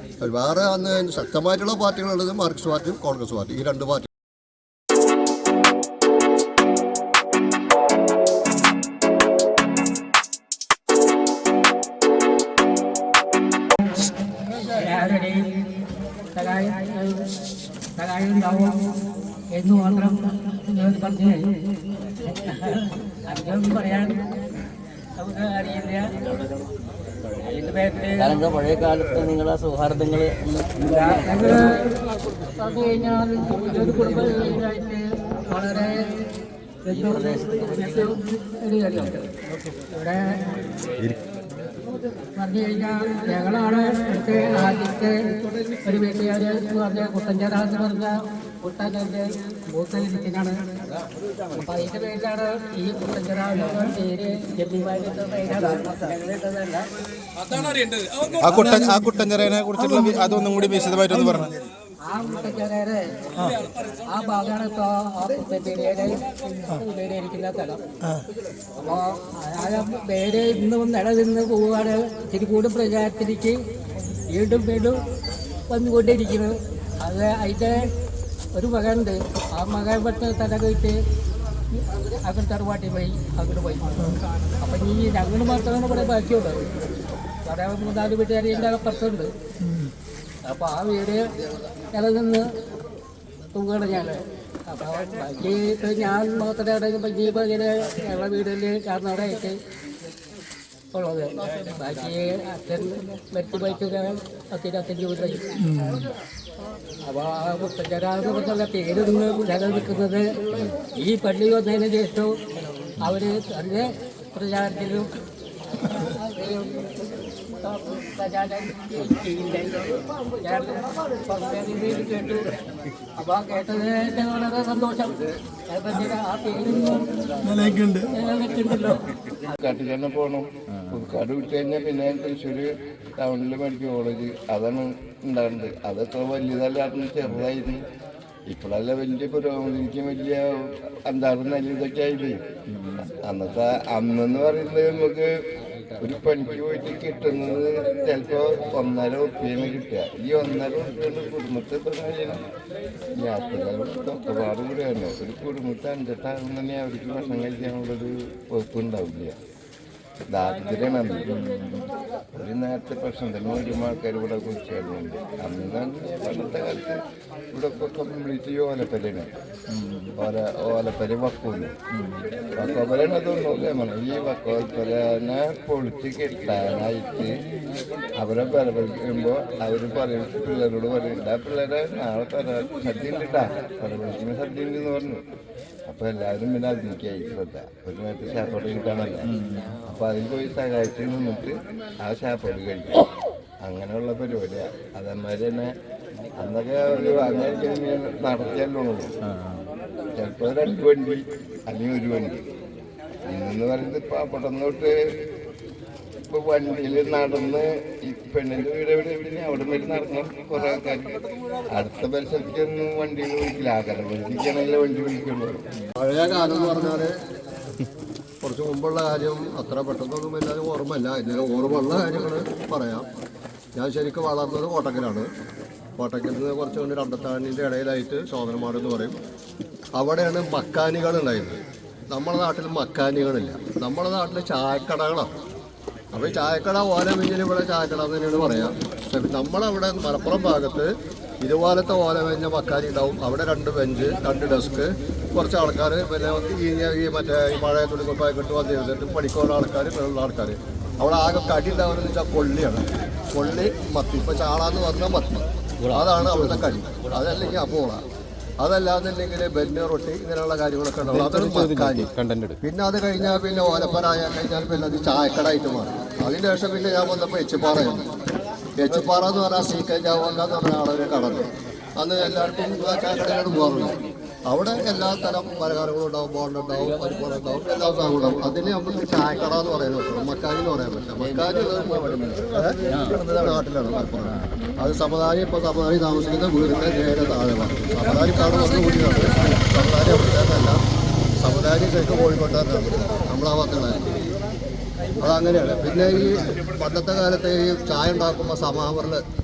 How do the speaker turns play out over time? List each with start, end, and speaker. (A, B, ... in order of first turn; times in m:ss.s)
0:00.2-0:04.1 A
0:14.6-0:15.6 B
0:16.3-0:17.3 B
0:18.0-0:18.9 B
0:19.5-0:21.6 B
0:22.3-0:24.4 B
0:25.2-0:26.2 B
0:27.4-0:28.5 B
0:28.3-0:30.6 C
0:30.8-0:32.0 B
0:32.6-0:36.2 B
0:36.8-0:40.4 B
0:42.4-0:50.7 B
0:51.5-0:56.9 B
0:57.5-0:59.0 B
0:58.4-1:01.6 D
0:59.8-1:00.1 B
1:01.1-1:01.4 B
1:02.0-1:03.3 B
1:03.9-1:07.8 B
1:08.8-1:13.6 B
1:14.3-1:15.0 B
1:15.7-1:17.9 B
1:18.5-1:21.0 B
1:21.8-1:26.7 B
1:27.4-1:29.3 B
1:30.4-1:31.2 B
1:31.9-1:32.4 B
1:33.5-1:39.6 B
1:40.9-1:45.7 B
1:47.0-1:52.3 B
1:53.0-1:55.1 B
1:55.8-1:57.1 B
1:57.6-2:02.5 B
2:03.2-2:09.1 B
2:09.5-2:17.8 E
2:18.5-2:22.4 E
2:23.0-2:25.3 E
2:26.0-2:32.4 E
2:33.1-2:39.4 E
2:40.3-2:41.3 E
2:41.3-2:41.9 C
2:42.3-2:47.0 E
2:47.5-2:49.3 E
2:49.8-2:50.1 C
2:50.2-2:51.8 E
2:52.5-2:57.3 E
2:58.2-3:05.2 E
3:05.9-3:09.3 E
3:09.8-3:13.1 E
3:13.6-3:15.7 E
3:16.4-3:19.1 E
3:20.1-3:22.5 E
3:23.2-3:25.0 E
3:26.3-3:35.6 E
3:36.0-3:37.1 A
3:38.4-3:43.1 A
3:43.8-3:45.3 A
3:46.0-3:49.2 A
3:50.0-3:51.6 A
3:52.1-3:55.3 A
3:56.1-4:00.9 A
4:01.4-4:18.0 A
4:18.6-4:22.1 A
4:21.1-4:22.6 D
4:22.6-4:28.1 A
4:28.8-4:31.5 A
4:32.0-4:33.9 A
4:34.5-4:50.8 A
4:41.2-4:43.6 C
4:51.4-4:54.2 A
4:55.2-4:59.2 A